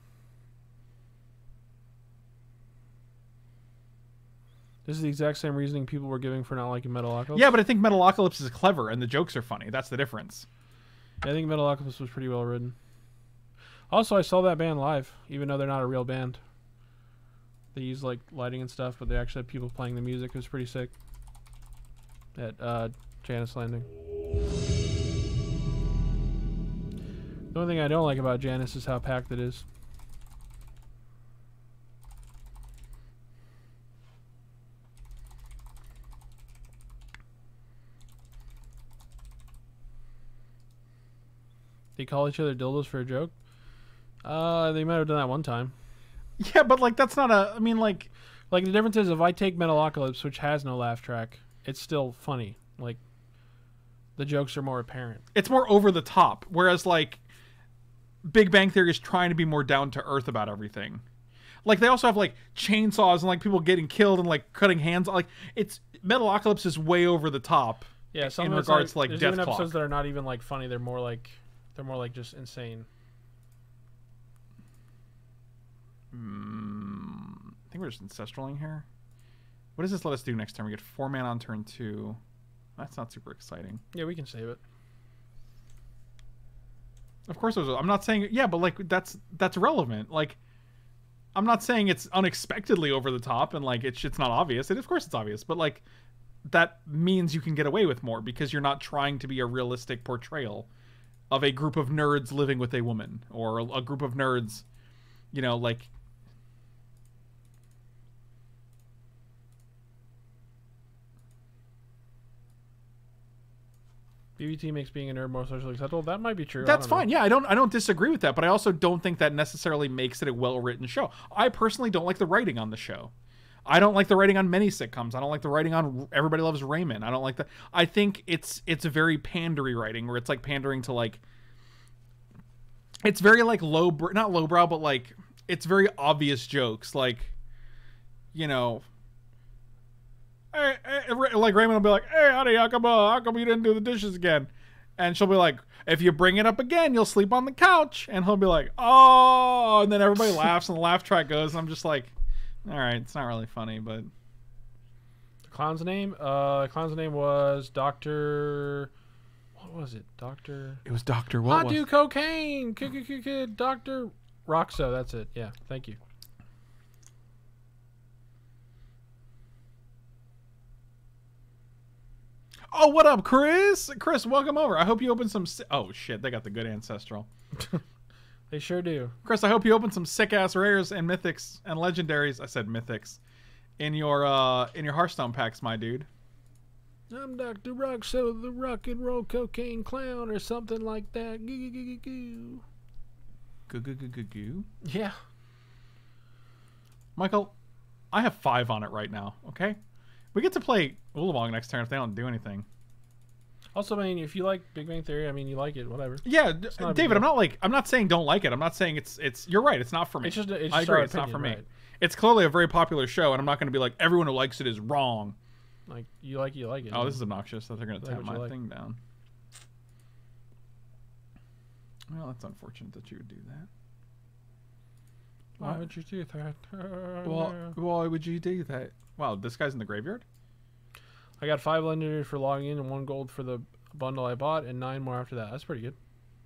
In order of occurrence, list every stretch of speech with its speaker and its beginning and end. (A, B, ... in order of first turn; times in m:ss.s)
0:04.8-0:07.5 A
0:07.3-0:10.5 B
0:11.2-0:12.8 A
0:13.9-0:16.4 A
0:17.7-0:20.9 A
0:22.4-0:23.9 A
0:27.5-0:29.6 A
0:42.0-0:43.3 A
0:44.2-0:45.7 A
0:46.4-0:48.1 B
0:48.5-0:53.0 A
0:54.2-0:55.2 A
0:55.3-0:57.2 B
0:58.2-1:01.0 B
1:01.6-1:09.8 B
1:08.1-1:12.9 A
1:16.1-1:18.9 B
1:19.8-1:22.2 B
1:22.8-1:23.8 B
1:23.9-1:24.6 A
1:27.3-1:30.4 B
1:31.4-1:35.8 B
1:36.4-1:40.7 B
1:41.3-1:44.6 B
1:45.3-1:45.9 B
1:54.4-1:57.1 A
1:56.6-2:03.1 B
2:03.7-2:11.2 B
2:13.0-2:17.3 B
2:18.3-2:18.8 B
2:20.5-2:34.1 B
2:35.5-2:38.9 A
2:39.6-2:40.8 A
2:40.8-2:41.9 B
2:41.5-2:46.0 A
2:52.7-2:57.3 B
2:57.6-2:57.8 A
2:58.5-2:59.2 A
2:59.2-3:03.2 B
3:03.8-3:06.1 B
3:07.1-3:12.6 A
3:13.7-3:14.7 B
3:14.8-3:15.2 A
3:17.2-3:17.5 B
3:18.1-3:19.8 B
3:20.3-3:22.7 B
3:23.7-3:27.3 A
3:26.2-3:35.4 B
3:30.2-3:31.7 A
3:35.9-3:37.2 A
3:36.9-3:39.0 B
3:38.0-3:38.5 A
3:42.1-3:43.7 B
3:45.6-3:45.8 B
3:45.6-3:47.8 A
3:47.2-3:50.2 B
3:51.4-3:56.0 A